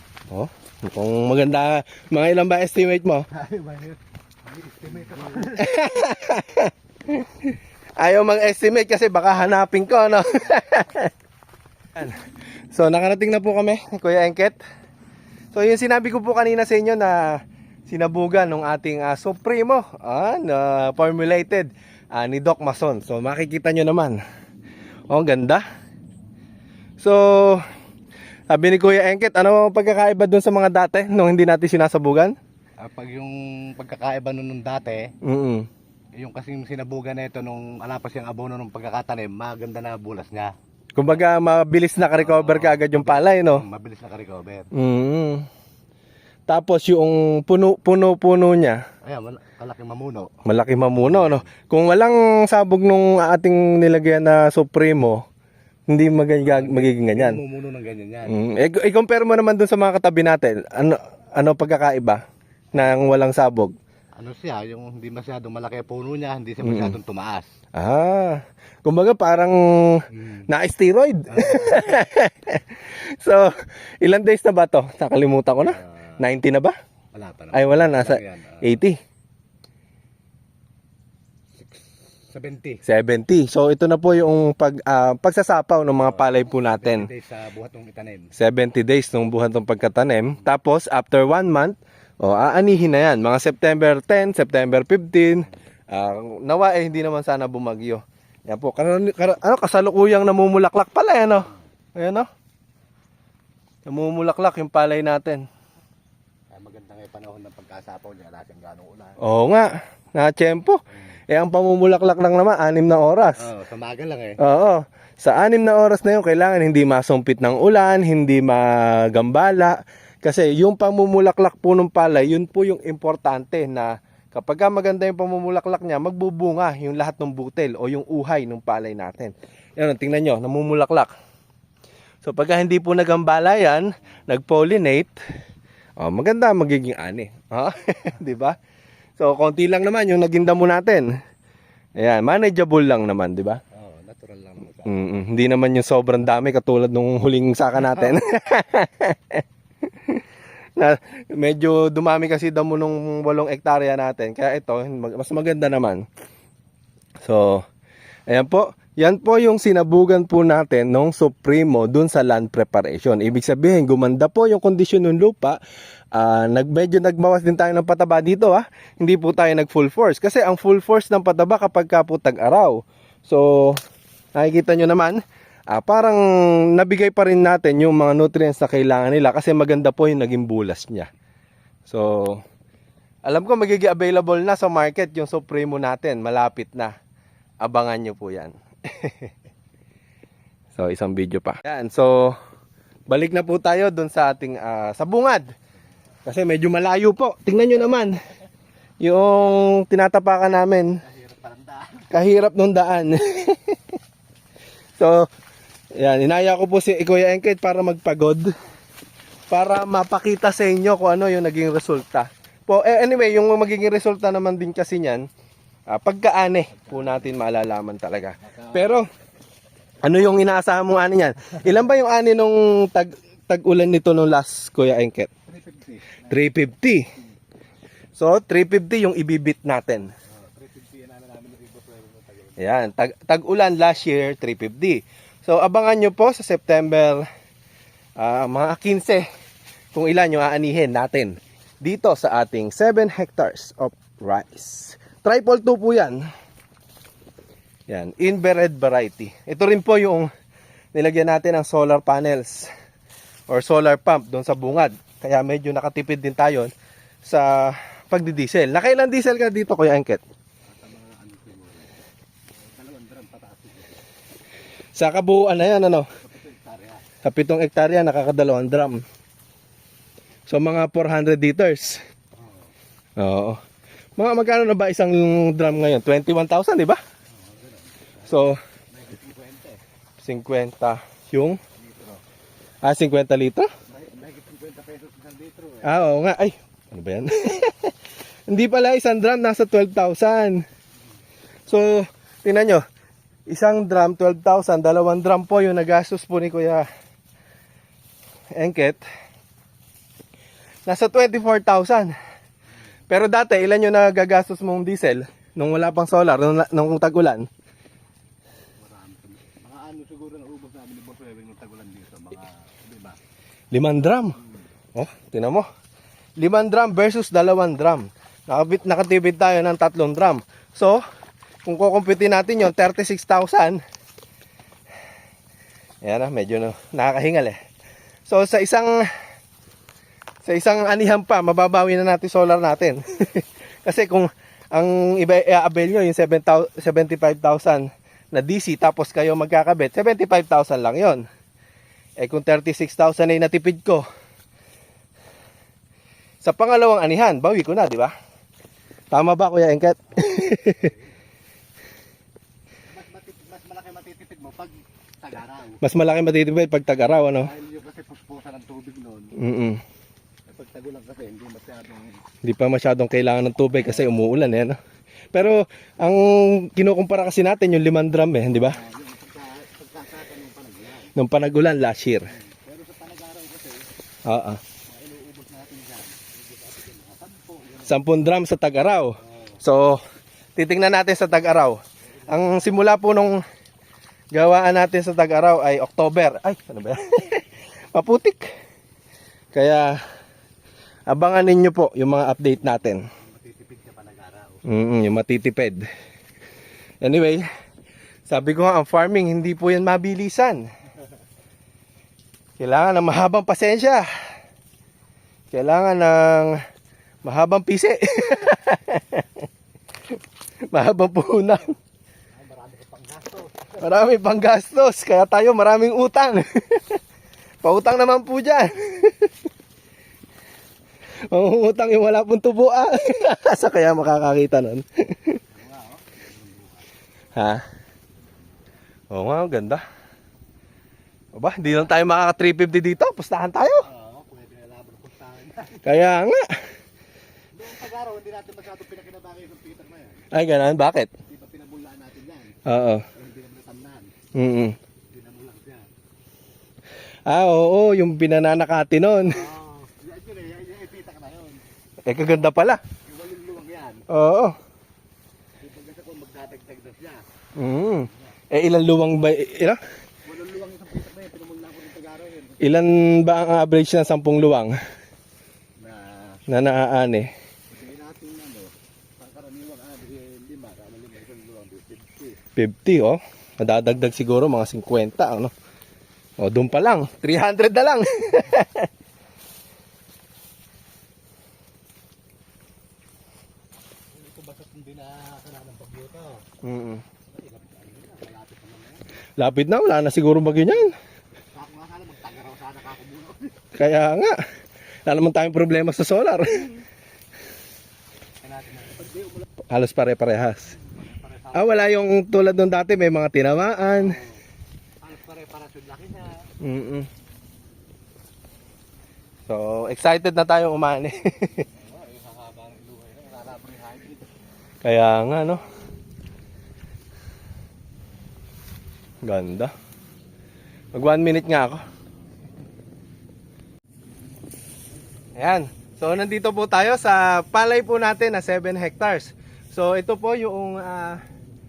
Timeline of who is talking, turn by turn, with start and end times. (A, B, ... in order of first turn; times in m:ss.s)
0:00.3-0:03.3 A
0:03.3-0:05.8 B
0:05.5-0:11.1 A
0:12.0-0:14.6 A
0:15.5-0:24.2 A
0:25.1-0:25.6 A
0:27.0-0:27.7 A
0:28.5-0:32.4 A
0:32.8-0:35.1 B
0:35.2-0:35.7 A
0:36.2-0:40.5 B
0:41.0-0:43.6 A
0:42.1-0:44.7 B
0:44.7-0:45.5 A
0:46.5-0:48.8 A
0:49.0-0:50.3 B
0:50.4-0:55.2 A
0:51.2-0:51.5 B
0:55.9-0:57.4 A
0:56.4-0:58.4 B
0:58.3-1:02.2 A
1:02.7-1:03.7 A
1:04.2-1:07.5 B
1:06.6-1:07.0 A
1:07.8-1:16.8 A
1:10.1-1:10.5 B
1:11.3-1:12.0 B
1:17.1-1:18.8 B
1:17.5-1:19.0 A
1:22.3-1:22.8 B
1:22.8-1:27.1 A
1:26.0-1:28.4 B
1:28.4-1:42.3 A
1:43.9-1:45.5 A
1:46.5-1:49.2 B
1:49.2-1:53.5 A
1:53.4-1:54.4 B
1:54.4-2:11.1 A
2:12.2-2:15.2 A
2:16.0-2:18.6 A
2:19.2-2:21.1 A
2:22.0-2:23.6 A
2:23.7-2:25.1 B
2:24.9-2:30.2 A
2:30.8-2:36.0 A
2:37.2-2:37.6 A
2:38.3-2:45.6 A
2:46.1-2:53.8 A
2:54.4-3:01.1 A
3:01.9-3:02.4 A
3:03.3-3:06.9 A
3:07.6-3:09.3 A
3:10.8-3:12.4 A
3:13.1-3:15.5 A
3:16.3-3:18.1 A
3:19.0-3:21.0 A
3:21.0-3:22.1 B
3:22.1-3:24.0 A
3:25.0-3:25.3 A
3:25.9-3:28.5 A
3:29.5-3:35.3 A
3:35.9-3:39.1 A
3:36.8-3:37.2 B
3:38.4-3:39.0 B
3:40.0-3:45.3 A
3:45.5-3:46.4 B
3:46.3-3:47.1 A
3:48.2-3:50.1 A
3:50.3-3:52.8 B
3:52.6-3:57.2 A
3:58.2-3:59.2 A
3:59.9-4:06.2 A
4:07.9-4:10.3 A
4:10.9-4:12.7 A
4:13.5-4:16.7 A
4:17.2-4:20.2 A
4:20.7-4:22.0 B
4:22.6-4:24.0 B
4:25.0-4:26.1 A
4:26.2-4:27.0 B
4:27.2-4:29.0 A
4:30.5-4:32.0 A
4:32.4-4:32.7 B
4:33.2-4:33.6 A
4:34.2-4:37.0 A
4:37.3-4:38.4 B
4:38.3-4:38.6 A
4:38.9-4:39.8 B
4:40.2-4:41.6 A
4:41.8-4:42.2 B
4:42.8-4:43.7 A
4:43.9-4:45.9 B
4:45.8-4:47.9 A
4:48.5-4:50.6 A
4:51.7-4:52.8 A
4:53.5-4:56.8 A
4:58.6-4:59.0 A
5:00.9-5:02.1 A
5:03.1-5:07.5 A
5:08.8-5:13.2 B
5:13.7-5:14.4 A
5:15.0-5:15.7 A
5:16.4-5:21.0 A
5:21.7-5:23.8 A
5:26.0-5:27.6 A
5:28.3-5:29.0 A
5:30.4-5:41.2 A
5:42.2-5:44.0 A
5:46.4-5:48.1 A
5:49.1-5:50.9 A
5:50.2-5:51.0 B
5:52.9-5:55.8 B
5:55.8-5:57.5 A
5:57.4-5:59.4 B
5:59.4-5:59.8 A
6:00.5-6:02.2 B
6:02.4-6:04.8 A
6:05.3-6:08.8 A
6:08.6-6:11.1 B
6:11.2-6:12.3 A
6:12.3-6:13.9 B
6:14.3-6:14.6 A
6:14.9-6:18.0 B
6:17.9-6:20.0 A
6:19.2-6:19.6 B
6:20.6-6:23.4 A
6:22.1-6:22.7 B
6:24.3-6:28.4 A
6:29.5-6:30.0 A
6:31.1-6:33.0 A
6:33.2-6:34.7 B
6:34.6-6:35.8 A
6:37.0-6:37.4 A
6:38.3-6:40.7 A
6:42.6-6:44.1 A
6:45.5-6:46.6 A
6:47.2-6:49.5 A
6:50.7-6:51.7 A
6:52.3-6:53.8 B
6:53.8-6:57.0 A
6:57.6-6:59.3 A
7:01.3-7:05.4 A
7:05.5-7:06.9 B
7:07.4-7:07.6 A
7:09.1-7:09.8 A
7:11.4-7:13.9 A
7:13.9-7:15.9 B
7:15.8-7:16.5 A
7:17.6-7:20.3 B
7:20.3-7:21.1 A
7:21.3-7:22.6 B
7:22.7-7:23.0 A
7:23.1-7:24.1 B
7:24.4-7:24.8 A
7:25.1-7:25.9 B
7:27.3-7:29.4 A
7:29.3-7:31.6 B
7:32.0-7:32.8 A
7:33.1-7:34.1 B
7:34.1-7:34.6 A
7:35.6-7:37.2 B
7:37.6-7:39.8 A
7:40.3-7:42.7 B
7:42.6-7:44.8 A
7:45.8-7:46.4 B
7:46.5-7:47.3 A
7:47.7-7:52.4 B
7:52.6-7:55.5 A
7:56.4-7:58.9 A
8:04.1-8:06.4 B
8:06.6-8:07.0 A
8:07.3-8:09.0 B
8:09.4-8:10.9 A
8:11.5-8:13.6 B
8:13.8-8:14.4 A
8:15.1-8:16.7 A
8:18.4-8:19.5 B
8:19.7-8:20.7 A
8:20.7-8:21.8 B
8:21.5-8:24.2 A
8:24.0-8:24.4 B
8:25.0-8:26.5 B
8:26.6-8:27.1 A
8:29.5-8:31.7 A
8:31.7-8:34.2 B
8:34.8-8:35.6 A
8:39.2-8:39.7 A
8:40.9-8:41.8 A
8:45.4-8:51.2 A